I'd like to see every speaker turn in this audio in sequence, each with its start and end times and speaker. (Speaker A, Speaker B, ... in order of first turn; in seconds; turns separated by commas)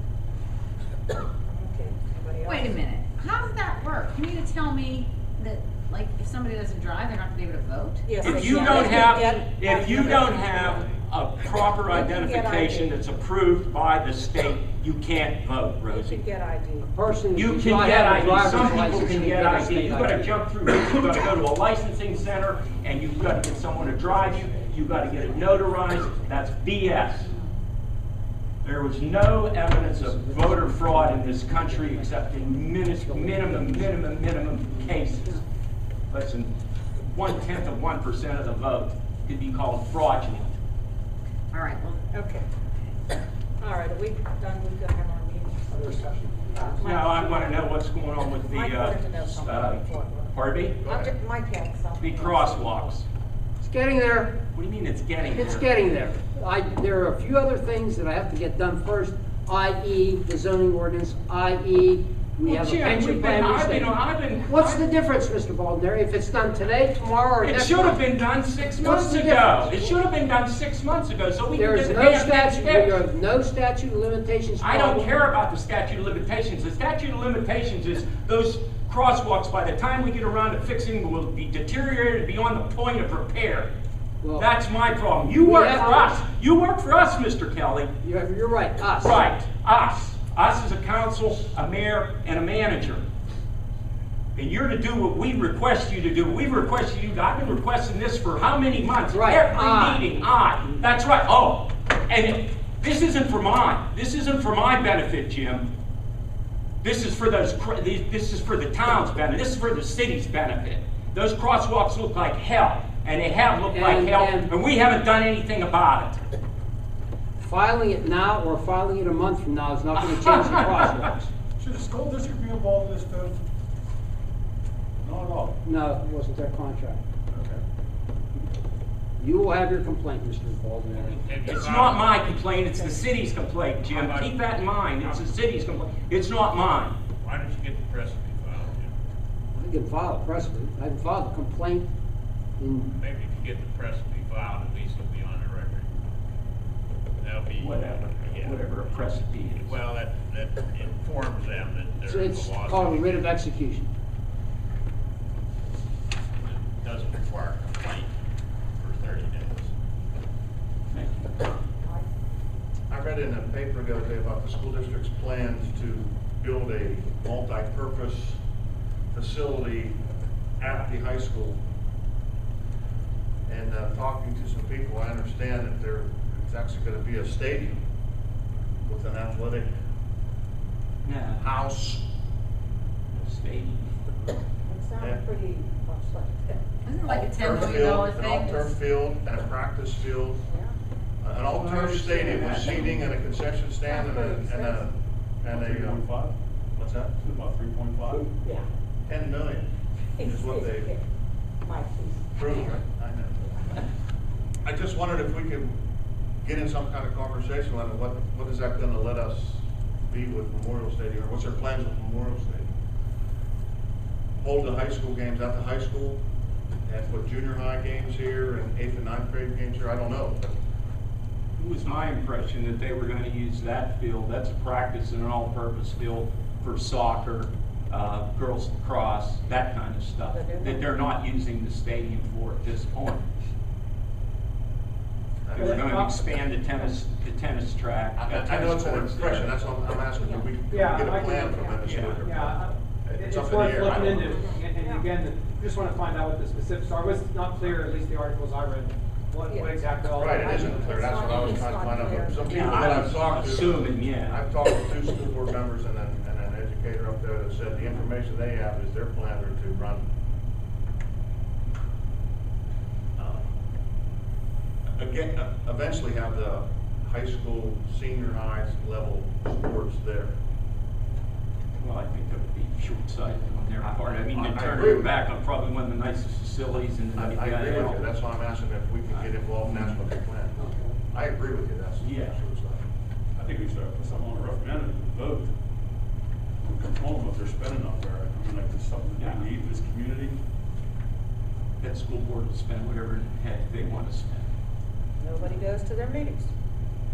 Speaker A: 1.4-2.8, Speaker B: 2.4-9.0, Speaker A: 8.1-10.8, Speaker C: 8.2-16.2, Speaker A: 11.8-13.0, Speaker A: 15.9-16.9, Speaker D: 16.9-20.4, Speaker C: 17.3-27.3, Speaker C: 28.6-35.4, Speaker D: 29.7-34.1, Speaker D: 34.6-35.3, Speaker C: 36.1-40.5, Speaker B: 41.5-42.0, Speaker A: 42.1-42.5, Speaker A: 43.6-47.7, Speaker E: 45.7-46.8, Speaker C: 46.8-50.8, Speaker A: 48.3-50.3, Speaker F: 50.8-51.1, Speaker A: 50.8-53.0, Speaker C: 52.0-53.0, Speaker D: 53.6-54.3, Speaker C: 54.5-55.7, Speaker D: 55.2-68.0, Speaker C: 62.4-64.8, Speaker C: 67.4-73.0, Speaker D: 68.7-70.0, Speaker D: 71.5-75.3, Speaker C: 74.6-83.7, Speaker D: 84.2-84.5, Speaker C: 84.3-87.9, Speaker D: 85.4-86.2, Speaker D: 88.0-89.2, Speaker C: 89.0-93.0, Speaker C: 94.3-105.7, Speaker D: 99.1-100.2, Speaker C: 106.8-116.2, Speaker D: 113.7-114.5, Speaker D: 117.4-121.3, Speaker C: 120.0-120.6, Speaker G: 121.6-123.4, Speaker G: 125.0-125.6, Speaker D: 125.6-127.0, Speaker G: 127.3-127.6, Speaker D: 129.2-131.1, Speaker H: 130.9-133.2, Speaker C: 131.4-137.0, Speaker H: 133.8-135.3, Speaker H: 137.2-138.9, Speaker D: 139.5-141.9, Speaker D: 142.6-142.9, Speaker H: 143.0-145.9, Speaker H: 147.2-153.3, Speaker C: 147.6-149.8, Speaker D: 152.0-153.9, Speaker H: 156.3-158.1, Speaker H: 158.8-159.7, Speaker C: 160.9-161.3, Speaker F: 162.9-168.4, Speaker F: 169.1-170.0, Speaker F: 170.6-171.6, Speaker F: 173.5-177.8, Speaker F: 178.8-179.8, Speaker C: 181.0-181.5, Speaker F: 181.4-182.0, Speaker C: 183.1-183.9, Speaker A: 184.6-186.6, Speaker B: 186.8-188.7, Speaker F: 187.0-190.4, Speaker A: 190.5-190.7, Speaker F: 191.2-196.0, Speaker C: 191.5-193.1, Speaker A: 193.8-194.8, Speaker G: 195.4-196.3, Speaker F: 196.8-197.1, Speaker G: 197.2-198.3, Speaker A: 198.4-198.7, Speaker F: 199.1-200.9, Speaker A: 200.2-201.0, Speaker A: 201.6-202.7, Speaker F: 202.3-203.6, Speaker A: 203.6-203.8, Speaker F: 204.6-205.8, Speaker F: 206.4-212.7, Speaker F: 214.4-216.2, Speaker F: 216.8-220.5, Speaker C: 221.6-233.2, Speaker A: 230.2-230.9, Speaker F: 235.4-235.8, Speaker E: 235.5-236.2, Speaker C: 235.6-239.5, Speaker F: 238.2-244.5, Speaker A: 240.1-240.6, Speaker E: 240.7-251.0, Speaker C: 241.8-242.2, Speaker A: 244.3-245.1, Speaker A: 249.5-249.7, Speaker F: 250.1-260.1, Speaker A: 250.3-253.1, Speaker C: 252.4-254.4, Speaker F: 263.2-263.5, Speaker F: 264.9-270.3, Speaker C: 271.8-278.1, Speaker F: 274.3-275.1, Speaker F: 277.1-280.6, Speaker C: 279.1-280.0, Speaker E: 280.6-280.9, Speaker F: 281.1-282.8, Speaker C: 282.0-282.4, Speaker G: 283.4-285.5, Speaker G: 286.6-290.4, Speaker C: 289.2-289.4, Speaker C: 291.8-294.5, Speaker A: 295.2-296.5